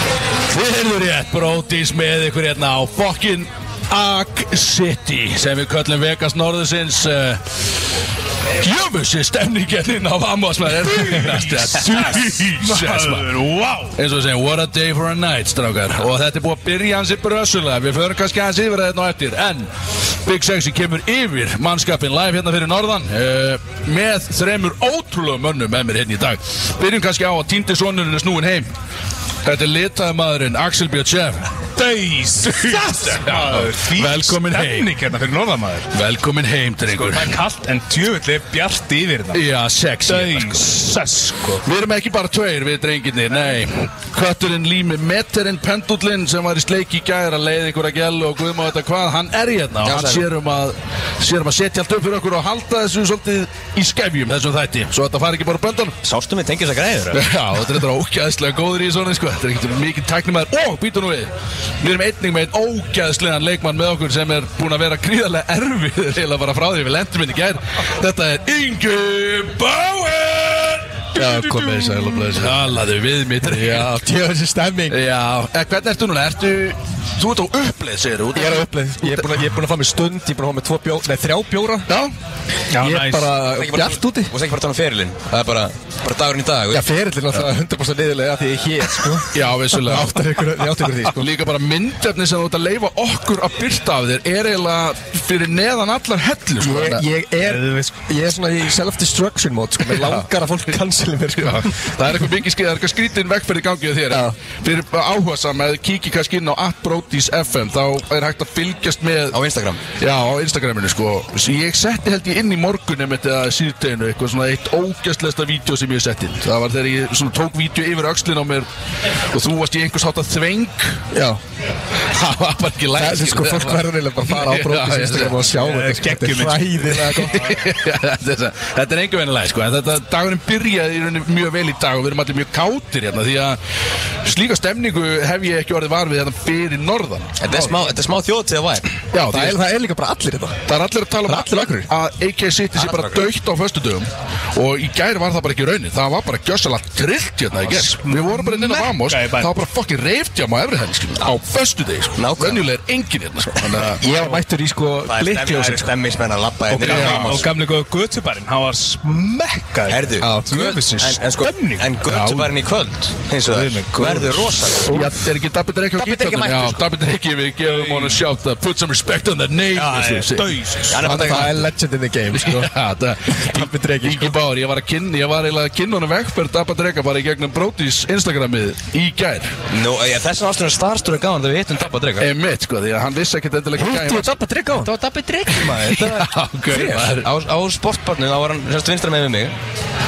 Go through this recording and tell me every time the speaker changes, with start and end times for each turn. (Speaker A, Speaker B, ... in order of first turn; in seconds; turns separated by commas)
Speaker A: 0.5-7.4, Speaker A: 8.6-13.3, Speaker B: 10.8-13.9, Speaker A: 13.9-19.7, Speaker A: 20.2-28.7, Speaker A: 29.4-31.5, Speaker B: 31.8-35.9, Speaker A: 32.4-34.9, Speaker A: 35.9-37.4, Speaker B: 36.9-39.4, Speaker A: 39.3-40.8, Speaker B: 40.0-41.6, Speaker A: 41.6-56.0, Speaker C: 49.8-50.2, Speaker C: 56.0-57.2, Speaker A: 57.1-61.3, Speaker A: 61.8-74.0, Speaker D: 71.2-72.4, Speaker D: 73.4-75.0, Speaker A: 74.9-79.3, Speaker D: 78.3-81.9, Speaker B: 82.7-83.3, Speaker D: 82.8-84.3, Speaker C: 83.5-86.8, Speaker D: 86.7-91.3, Speaker A: 89.3-90.2, Speaker A: 91.0-97.0, Speaker D: 96.6-101.7, Speaker B: 97.4-98.0, Speaker A: 99.9-100.3, Speaker A: 101.4-109.4, Speaker D: 104.1-104.3, Speaker C: 109.3-109.8, Speaker A: 110.0-118.7, Speaker A: 119.3-121.0, Speaker D: 121.1-121.4, Speaker A: 122.1-125.5, Speaker D: 122.9-127.5, Speaker B: 125.5-127.5, Speaker A: 127.2-133.6, Speaker A: 134.2-137.8, Speaker C: 137.4-138.9, Speaker D: 139.1-140.7, Speaker A: 139.1-139.6, Speaker A: 140.7-154.0, Speaker D: 141.2-141.9, Speaker C: 142.7-143.3, Speaker B: 147.6-149.5, Speaker C: 152.2-152.6, Speaker D: 154.0-155.9, Speaker C: 155.0-157.5, Speaker B: 156.7-162.0, Speaker A: 156.8-157.4, Speaker C: 159.9-165.0, Speaker D: 160.2-160.7, Speaker A: 162.1-162.5, Speaker B: 163.4-164.7, Speaker A: 164.8-171.7, Speaker C: 166.0-166.8, Speaker B: 167.6-168.2, Speaker B: 169.7-171.0, Speaker C: 170.9-171.5, Speaker D: 171.0-172.7, Speaker A: 172.3-179.5, Speaker D: 173.3-174.4, Speaker C: 179.7-182.3, Speaker A: 182.2-184.4, Speaker D: 183.8-184.9, Speaker C: 184.8-189.5, Speaker A: 185.6-187.3